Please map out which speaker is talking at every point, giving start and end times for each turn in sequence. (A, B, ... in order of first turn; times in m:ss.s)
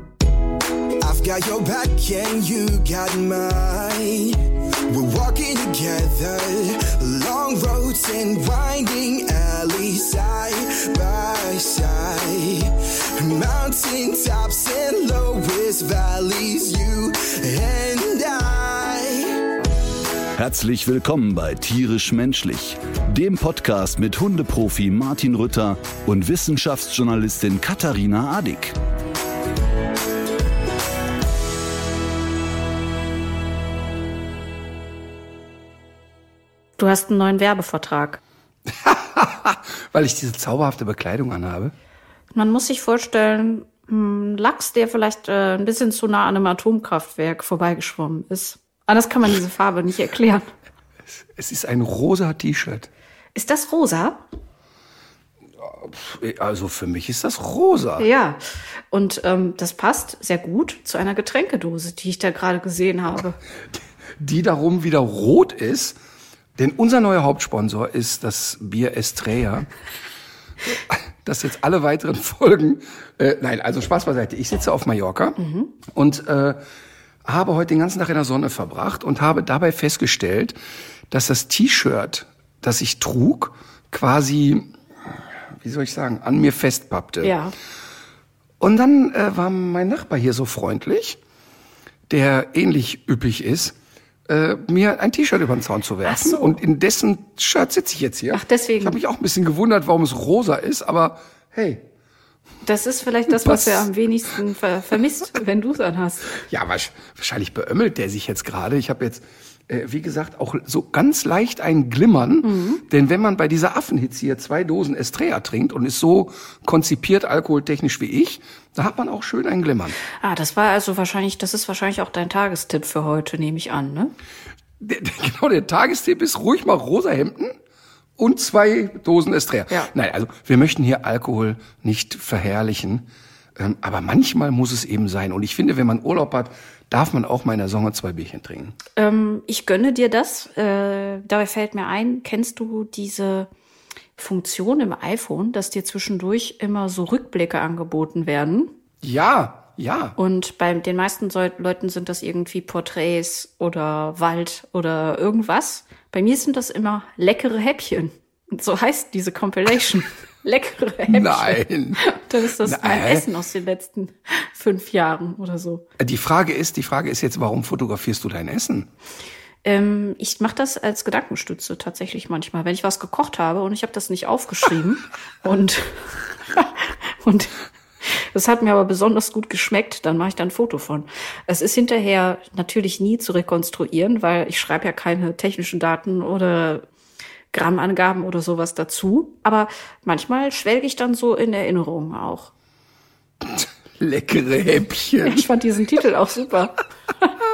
0:01.0-0:19.3 A
0:20.4-0:28.8 B
0:36.8-0:38.2 C
0:38.7-0:41.7 D
0:42.3-0:50.5 C
0:51.1-0:52.9 D
0:53.4-0:54.2 C
0:55.6-0:58.1 D
0:58.0-0:58.4 C
0:58.9-1:03.4 C
1:04.2-1:06.0 D
1:06.6-1:09.7 D
1:10.6-1:16.6 D
1:15.4-1:15.7 C
1:17.2-1:20.6 D
1:21.1-1:27.3 D
1:27.2-1:27.5 C
1:28.6-1:31.2 D
1:32.1-1:33.8 D
1:34.3-1:41.8 D
1:36.0-1:36.6 C
1:38.3-1:39.0 C
1:42.6-1:46.3 C
1:43.4-1:43.9 D
1:46.4-2:00.0 D
1:52.4-1:52.8 C
2:00.2-2:04.1 C
2:04.8-2:07.6 D
2:08.2-2:18.8 D
2:19.0-2:23.5 C
2:24.2-2:28.7 C
2:29.0-2:30.2 D
2:30.2-2:45.8 C
2:41.1-2:42.0 D
2:42.6-2:43.3 D
2:46.0-2:48.9 D
2:49.6-2:57.5 C
2:58.0-3:06.9 C
3:07.5-3:12.5 C
3:13.4-3:15.5 D
3:15.2-3:17.3 C